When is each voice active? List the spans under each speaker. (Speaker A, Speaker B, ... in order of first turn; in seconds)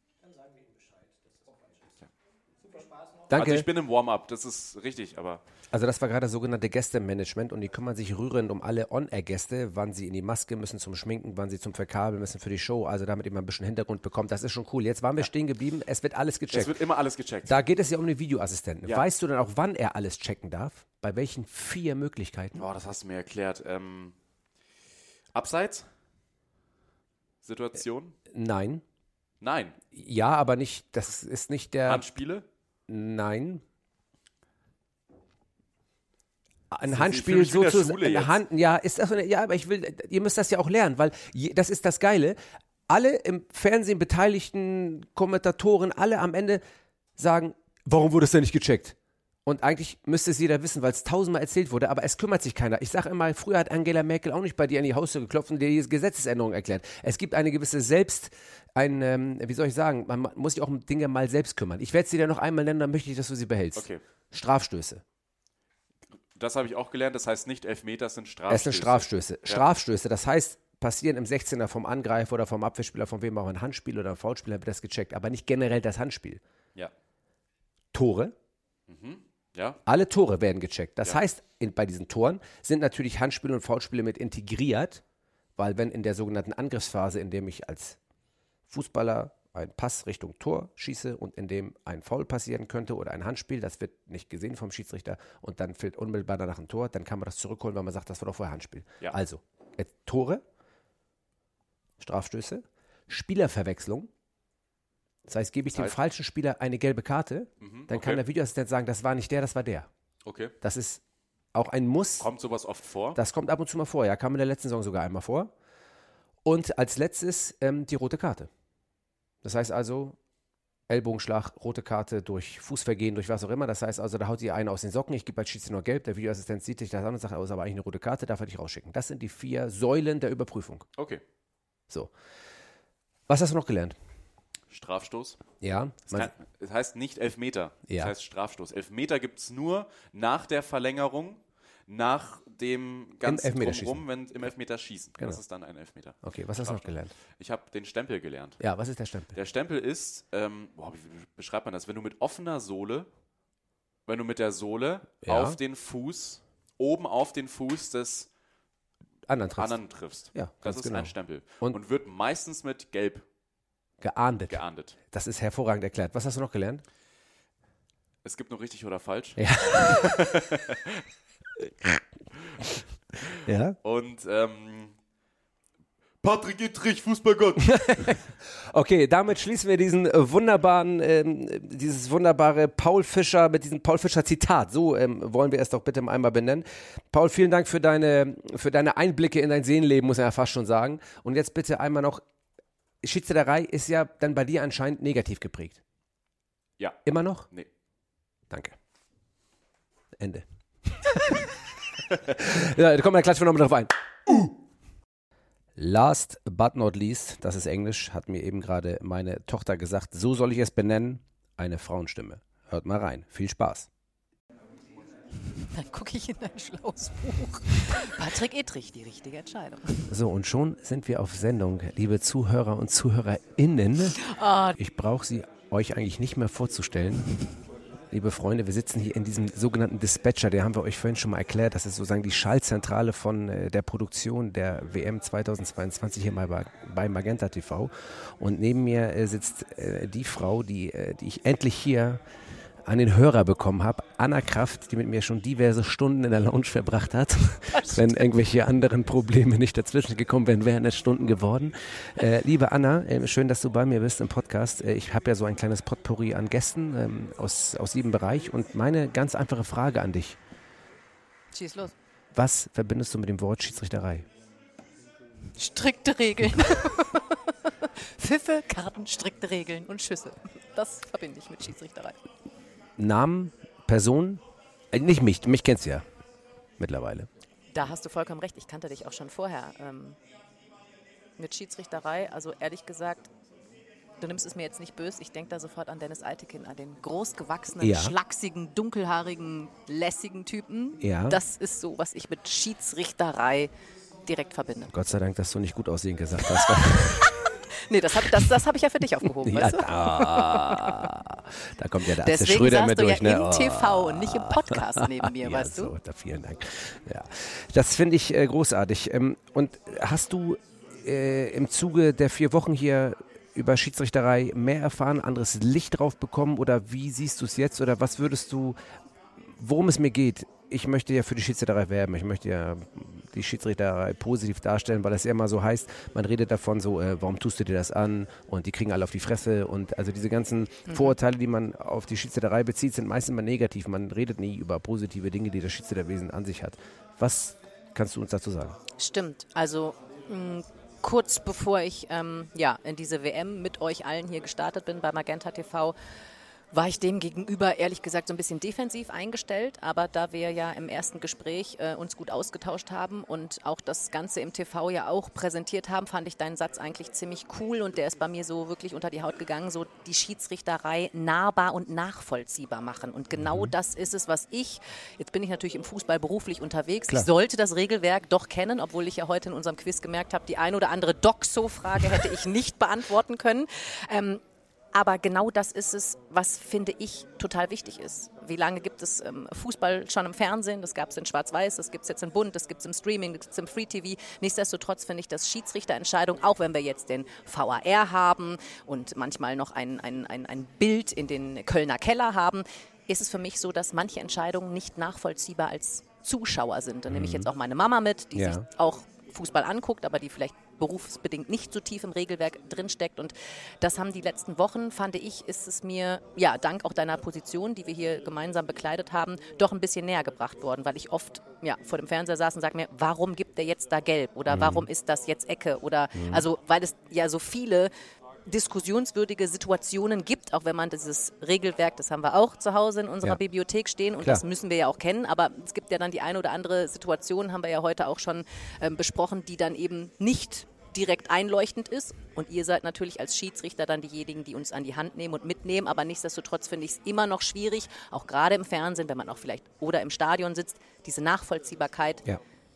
Speaker A: 0.2-2.1, 2.6-3.5
Speaker B: 3.3-5.4, 16.5-17.6, 22.6-24.1, 25.3-25.9, 27.4-28.2, 29.4-29.8, 31.9-32.5, 36.9-38.4, 63.8-64.0, 66.3-69.7, 78.9-79.8, 105.7-106.0, 107.6-108.2, 110.2-110.5, 112.2-113.2, 130.9-131.2, 134.7-135.4, 136.1-148.6, 149.3-153.1, 154.1-158.3, 159.6-163.3, 164.5-165.0, 168.2-170.6, 173.8-175.0, 176.2-177.7, 196.8-197.7
Speaker C: 3.3-3.7, 5.7-16.8, 17.4-22.6, 28.3-28.8, 29.9-32.0, 32.9-33.6, 36.7-42.4, 42.9-46.6, 47.2-65.0, 68.5-76.4, 77.9-78.3, 79.9-85.0, 85.6-88.0, 88.7-100.4, 102.0-104.1, 105.3-109.9, 110.6-111.0, 111.5-112.3, 113.2-115.5, 116.5-118.5, 119.4-120.2, 120.9-130.9, 133.3-134.0, 135.6-136.3, 143.2-144.0, 146.2-147.1, 148.6-149.3, 155.2-155.6, 159.3-161.8, 164.0-166.8, 169.4-170.1, 173.4-173.8, 177.7-192.2, 193.0-195.8, 197.1-197.5, 198.5-198.8, 200.2-201.4, 202.3-203.9, 205.8-213.9, 220.1-224.2, 224.8-227.3, 228.1-242.2, 242.9-260.4, 262.4-264.2, 273.0-276.1, 276.8-277.3, 287.8-288.1, 291.0-291.4, 294.9-297.3, 299.4-318.8, 319.6-338.8, 363.4-363.7, 397.1-397.5, 398.3-398.6, 414.5-414.9, 416.1-416.4
Speaker D: 215.4-220.1, 224.2-224.8, 261.5-261.9, 265.6-267.4, 268.2-272.2, 277.7-280.2, 281.4-283.3, 284.2-293.7, 294.3-294.9, 297.2-301.1, 302.2-305.9, 330.9-331.2, 339.0-345.9, 346.7-374.4, 374.9-417.9, 418.5-442.2